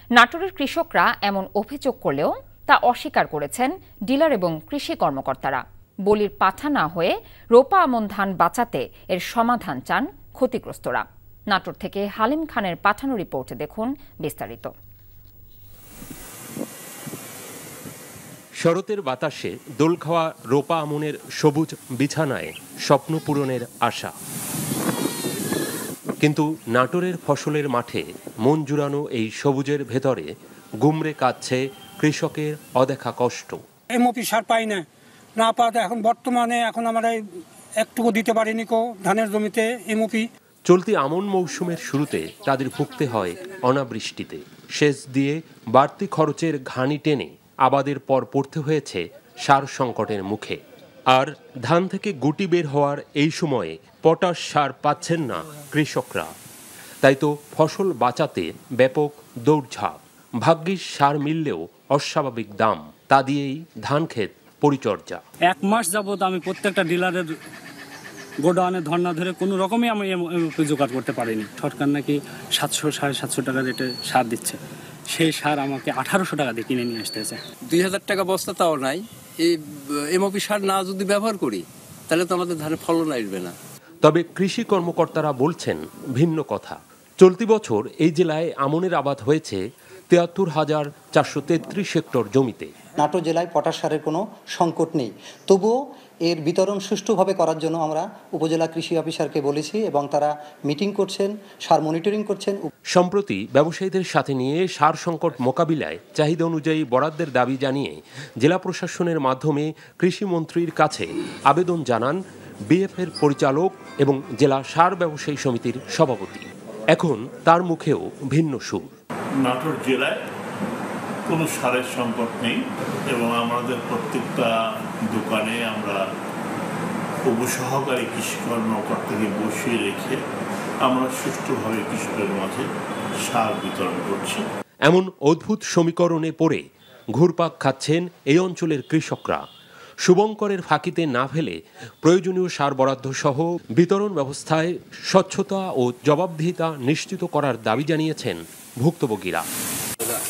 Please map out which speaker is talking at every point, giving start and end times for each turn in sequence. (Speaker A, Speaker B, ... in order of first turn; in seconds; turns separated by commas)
Speaker A: 0.2-14.7, Speaker B: 18.6-24.1, Speaker B: 26.2-30.3, Speaker B: 30.8-33.6, Speaker C: 33.9-37.2, Speaker C: 37.8-40.3, Speaker B: 40.7-50.6, Speaker B: 51.1-56.3, Speaker B: 57.0-65.2, Speaker D: 65.5-67.3, Speaker D: 68.4-77.4, Speaker E: 77.7-83.5, Speaker B: 84.0-92.7, Speaker F: 93.0-102.7, Speaker B: 102.9-118.9, Speaker G: 119.4-120.2, Speaker G: 121.3-124.5, Speaker G: 125.1-126.0, Speaker G: 127.2-130.2, Speaker G: 130.8-132.7, Speaker G: 133.2-134.4, Speaker B: 134.9-136.6, Speaker B: 137.2-139.4, Speaker B: 140.1-149.5